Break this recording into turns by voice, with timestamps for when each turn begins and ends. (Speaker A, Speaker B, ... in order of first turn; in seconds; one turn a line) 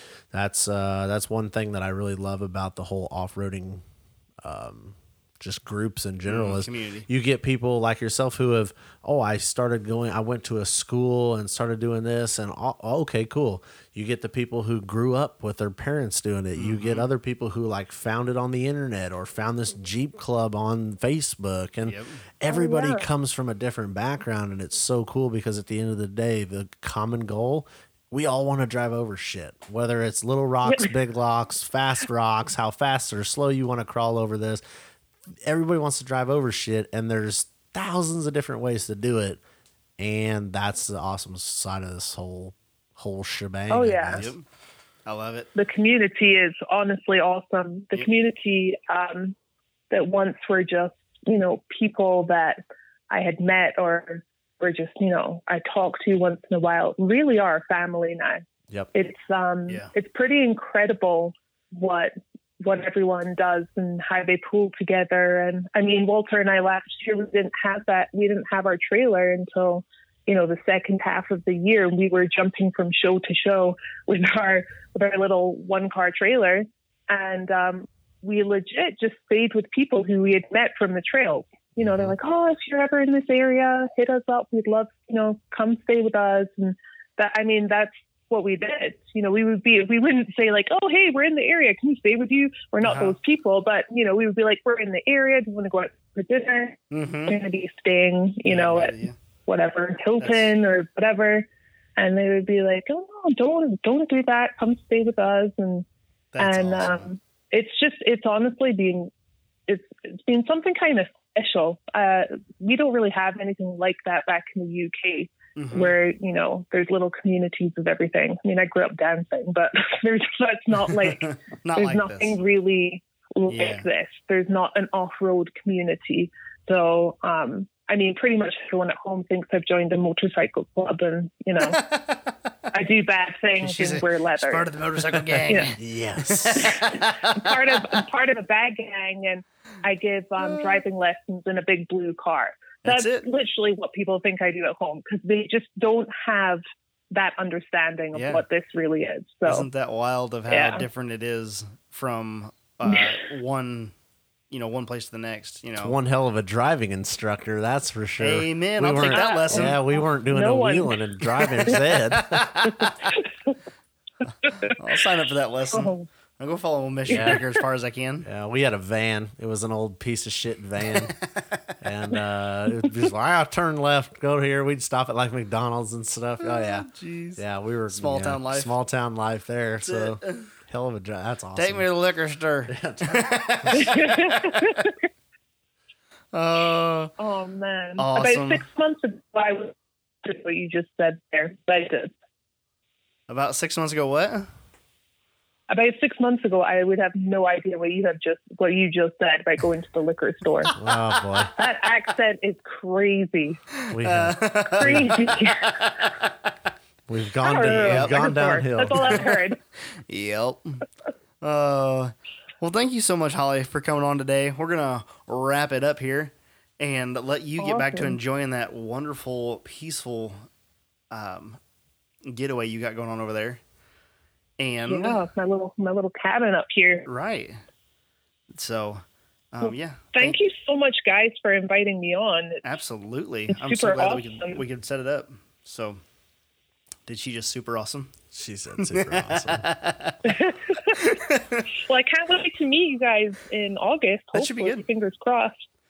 Speaker A: 0.3-3.8
Speaker A: 4.4-34.6
Speaker B: 6.3-7.1
Speaker B: 16.6-17.1
Speaker B: 21.9-22.2
Speaker C: 22.5-23.1
Speaker C: 30.7-30.9
Speaker A: 35.5-39.4
Speaker A: 40.0-44.3
Speaker C: 43.7-44.2
Speaker B: 44.2-44.4
Speaker B: 45.1-45.5
Speaker C: 45.5-49.4
Speaker C: 49.9-52.6
Speaker C: 53.1-105.9
Speaker A: 81.8-82.1
Speaker B: 92.8-93.2
Speaker B: 96.9-97.4
Speaker B: 98.5-99.2
Speaker B: 100.2-100.5
Speaker B: 106.3-107.1
Speaker C: 106.4-109.1
Speaker C: 109.7-131.8
Speaker B: 115.6-116.0
Speaker B: 120.8-122.4
Speaker B: 123.5-123.8
Speaker B: 131.6-132.4
Speaker C: 132.7-134.7
Speaker B: 133.6-137.1
Speaker A: 135.8-137.4
Speaker C: 136.6-149.7
Speaker B: 140.4-140.8
Speaker B: 142.8-143.2
Speaker B: 148.1-148.4
Speaker B: 149.5-153.9
Speaker C: 150.5-150.8
Speaker C: 152.9-153.2
Speaker B: 154.5-156.0
Speaker A: 155.8-162.6
Speaker B: 158.2-159.8
Speaker C: 159.0-161.8
Speaker B: 161.7-163.1
Speaker C: 163.1-163.5
Speaker C: 164.4-164.7
Speaker B: 164.6-168.3
Speaker C: 165.7-166.1
Speaker A: 167.1-167.4
Speaker C: 167.1-167.4
Speaker A: 168.2-171.2
Speaker B: 171.0-171.7
Speaker A: 171.8-181.9
Speaker B: 176.4-178.7
Speaker B: 179.8-180.5
Speaker B: 181.6-184.8
Speaker A: 182.7-183.9
Speaker C: 183.8-184.9
Speaker B: 186.3-187.1
Speaker C: 187.2-192.1
Speaker B: 188.0-188.6
Speaker B: 193.3-194.5
Speaker C: 195.7-200.8
Speaker A: 200.7-201.5
Speaker C: 201.6-203.6
Speaker B: 203.7-206.3
Speaker A: 203.9-205.2
Speaker C: 204.8-205.9
Speaker A: 207.1-209.3
Speaker C: 207.4-209.6
Speaker B: 207.6-208.2
Speaker B: 210.1-210.8
Speaker B: 211.4-220.5
Speaker C: 217.6-218.2
Speaker B: 221.1-221.6
Speaker B: 222.2-223.6
Speaker B: 224.6-225.2
Speaker C: 224.9-227.1
Speaker B: 227.1-227.6
Speaker B: 228.5-230.4
Speaker C: 229.7-232.6
Speaker B: 232.6-236.0
Speaker C: 233.5-234.6
Speaker B: 237.1-238.2
Speaker A: 238.3-239.7
Speaker B: 238.8-241.7
Speaker C: 240.2-241.2
Speaker C: 241.7-245.6
Speaker B: 244.3-244.8